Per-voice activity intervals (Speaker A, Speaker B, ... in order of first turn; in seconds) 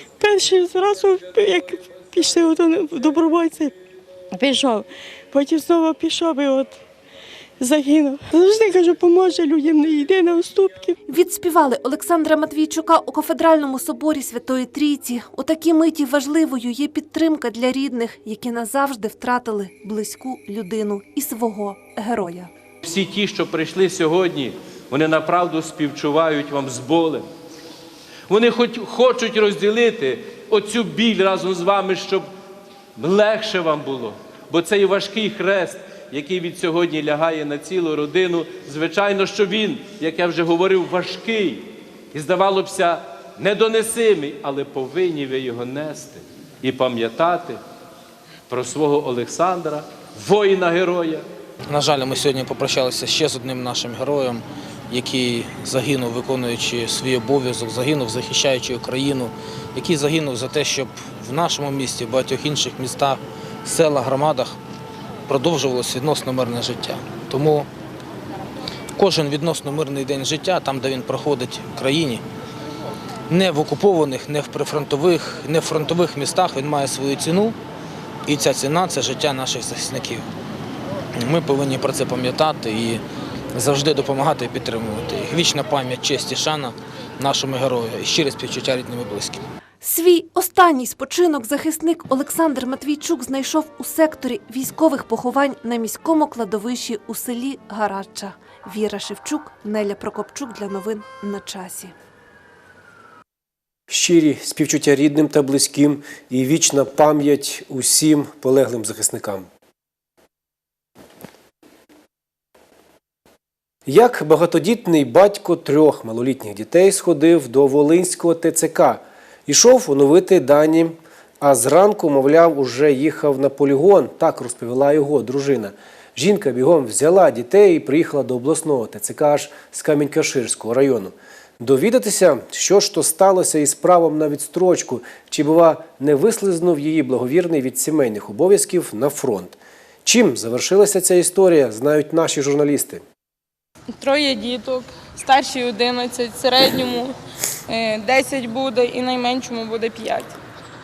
Speaker A: 0.2-3.7, 5.3-6.7, 7.6-8.2, 9.0-10.9
Speaker B: 11.1-22.5, 89.8-101.9
Speaker C: 22.8-27.3, 28.3-32.3, 33.0-47.6, 48.5-51.3
Speaker D: 51.7-64.6, 65.3-67.7, 69.0-72.2, 73.3-77.6, 78.3-80.3, 81.2-83.0, 83.5-89.5
Speaker E: 103.9-109.5, 113.9-143.0
Speaker F: 143.9-147.2, 147.7-150.4